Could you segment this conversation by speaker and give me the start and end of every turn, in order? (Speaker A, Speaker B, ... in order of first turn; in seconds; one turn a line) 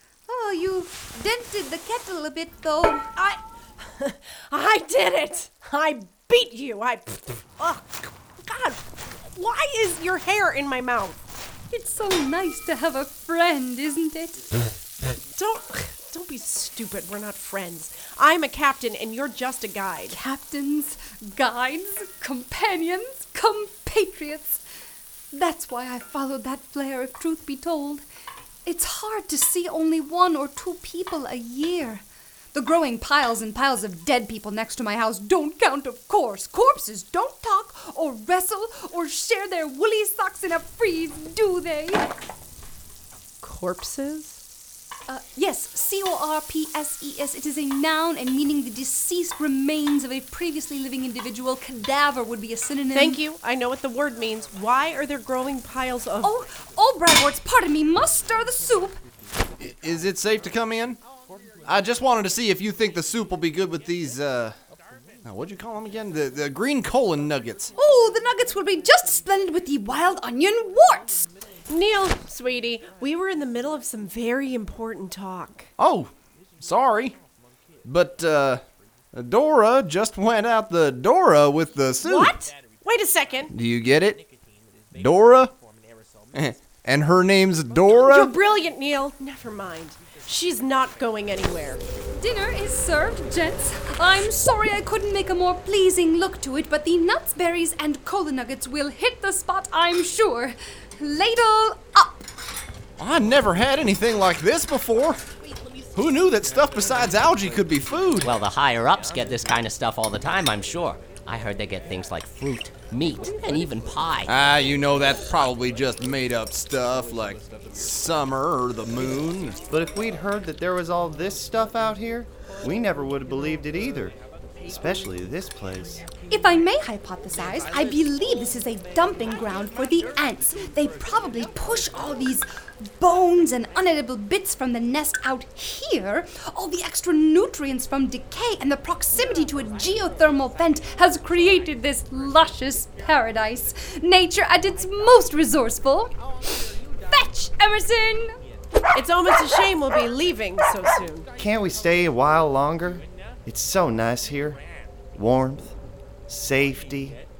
Speaker A: 0.3-3.1
Speaker B: 3.1-11.3
Speaker A: 11.7-14.4
Speaker B: 15.3-20.2
Speaker A: 20.1-24.6
Speaker A: 25.3-28.1
Speaker A: 28.7-42.1
Speaker B: 43.4-44.4
Speaker A: 45.1-53.2
Speaker B: 53.0-56.3
Speaker A: 56.2-59.0
Speaker C: 59.6-61.0
Speaker C: 61.6-64.6
Speaker C: 65.2-67.7
Speaker A: 67.8-71.3
Speaker B: 71.7-75.7
Speaker C: 75.8-77.2
Speaker C: 77.8-82.3
Speaker B: 82.0-83.5
Speaker C: 83.5-84.2
Speaker C: 85.0-85.5
Speaker C: 86.3-88.3
Speaker B: 88.0-91.8
Speaker A: 92.2-102.3
Speaker C: 103.0-105.2
Speaker C: 106.0-108.3
Speaker D: 108.2-114.3
Speaker C: 114.3-119.6
Speaker E: 119.7-124.2
Speaker E: 124.7-126.0
Speaker A: 126.3-146.1
Speaker A: 147.1-148.3
Speaker B: 148.9-151.3
Speaker E: 151.4-154.6
Speaker E: 155.2-155.8
Speaker E: 156.3-157.2